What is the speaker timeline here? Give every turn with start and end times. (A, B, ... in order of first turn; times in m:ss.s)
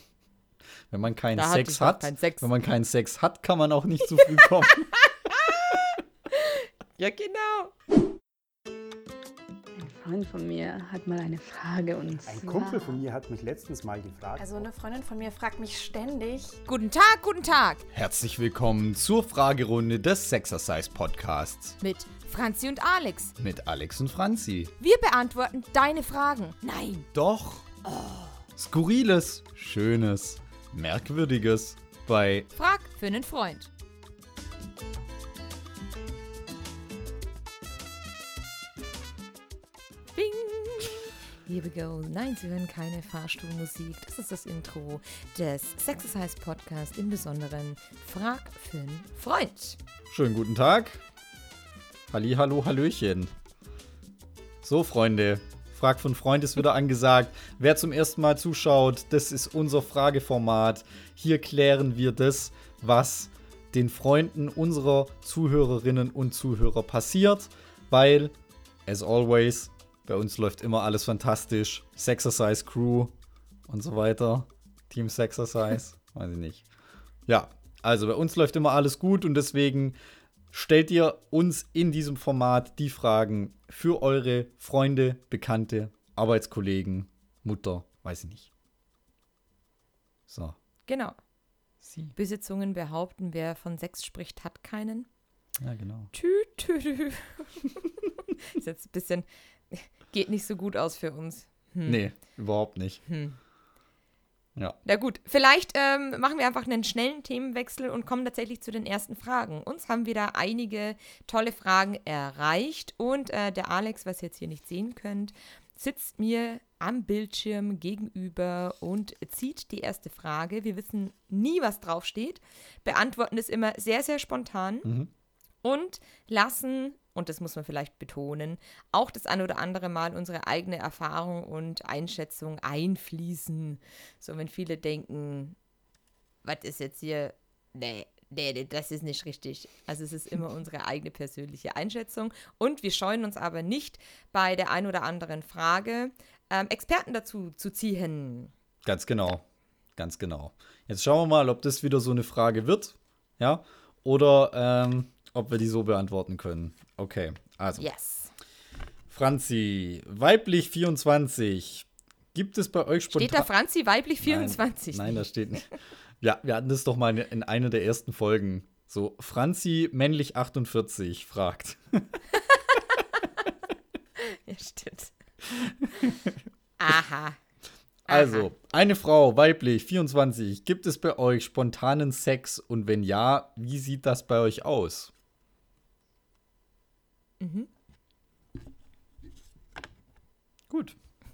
0:00.9-0:04.9 A
0:01.4-0:02.5 B
0:04.2-0:07.7 B
0:09.8-0:12.9 C
0:12.2-0:14.7 D
0:14.4-0:16.6 E
0:16.7-0:17.8 B
0:17.9-0:21.8 A
0:21.8-0:23.3 B
0:23.4-0:24.7 A
0:24.8-0:27.1 B
0:27.1-0:27.7 A
0:27.8-0:28.4 B
0:28.6-0:32.5 A
0:32.6-0:33.7 B
0:40.1-0:49.8 B
0:50.1-0:51.0 A
0:52.1-0:53.3 A
0:54.6-1:08.3 A
1:08.8-1:13.1 A
1:13.7-1:16.7 A
1:17.3-1:20.0 A
1:20.5-1:28.5 A
1:30.3-1:30.6 A
1:30.9-1:31.2 B
1:31.8-1:32.1 A
1:32.2-1:35.1 B
1:35.6-1:36.1 A
1:36.1-1:42.0 B
1:41.8-1:43.0 A
1:43.1-1:43.4 B
1:44.8-2:04.9 B
2:04.8-2:05.1 A
2:05.6-2:15.6 B
2:16.4-2:28.5 B
2:28.8-2:29.4 A
2:30.0-2:37.9 A
2:37.8-2:38.3 B
2:39.1-2:43.5 A
2:43.1-2:45.2 B
2:44.2-2:52.2 A
2:52.4-2:53.0 B
2:54.2-2:55.2 B
2:55.6-2:56.1 A
2:56.8-2:57.4 B
2:58.1-2:58.5 B
2:58.1-3:05.1 A
3:07.4-3:07.7 B
3:10.7-3:11.0 A